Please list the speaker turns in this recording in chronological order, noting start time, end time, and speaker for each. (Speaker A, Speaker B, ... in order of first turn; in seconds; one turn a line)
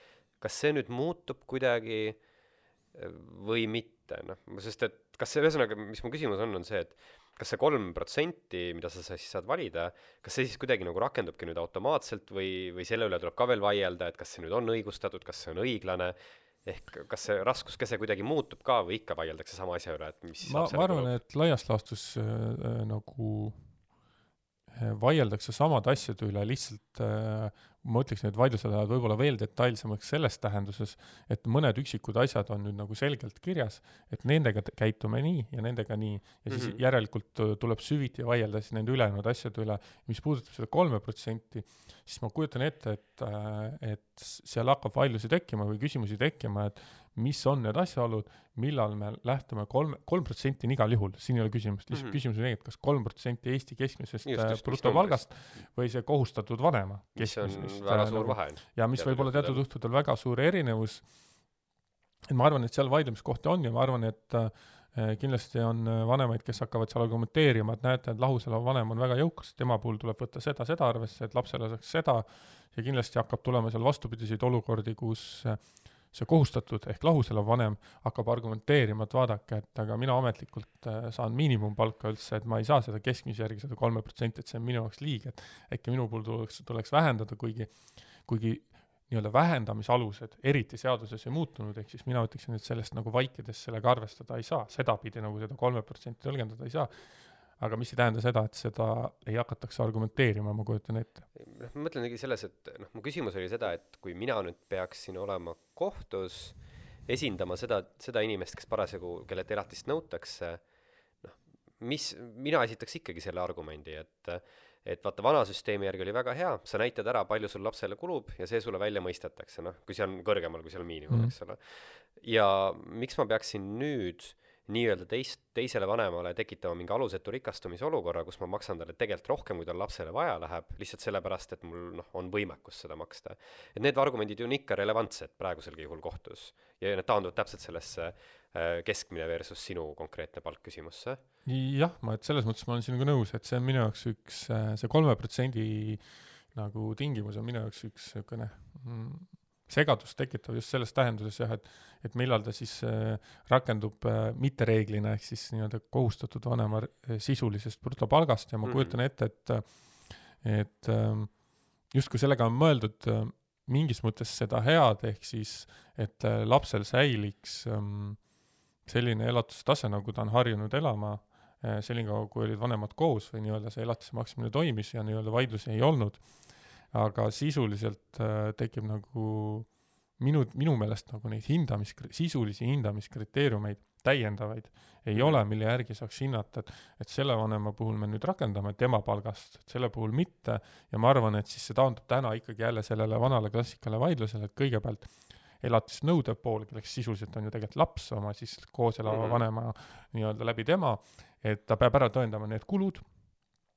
Speaker A: 0.4-2.2
Speaker A: 2.9-21.2
Speaker B: 20.4-23.6
Speaker B: 24.7-61.0
Speaker A: 36.5-36.8
Speaker A: 51.9-52.2
Speaker A: 54.2-55.2
Speaker A: 57.2-59.6
Speaker B: 62.3-75.6
Speaker B: 76.1-87.7
Speaker B: 88.2-96.9
Speaker B: 97.6-101.2
Speaker A: 101.4-110.6
Speaker A: 111.2-141.2
Speaker B: 121.1-121.3
Speaker B: 141.5-161.3
Speaker A: 158.7-158.9
Speaker B: 161.9-168.2
Speaker B: 168.9-176.2
Speaker B: 176.9-179.7
Speaker B: 180.2-195.1
Speaker A: 185.2-185.4
Speaker B: 195.6-203.0
Speaker A: 199.1-199.4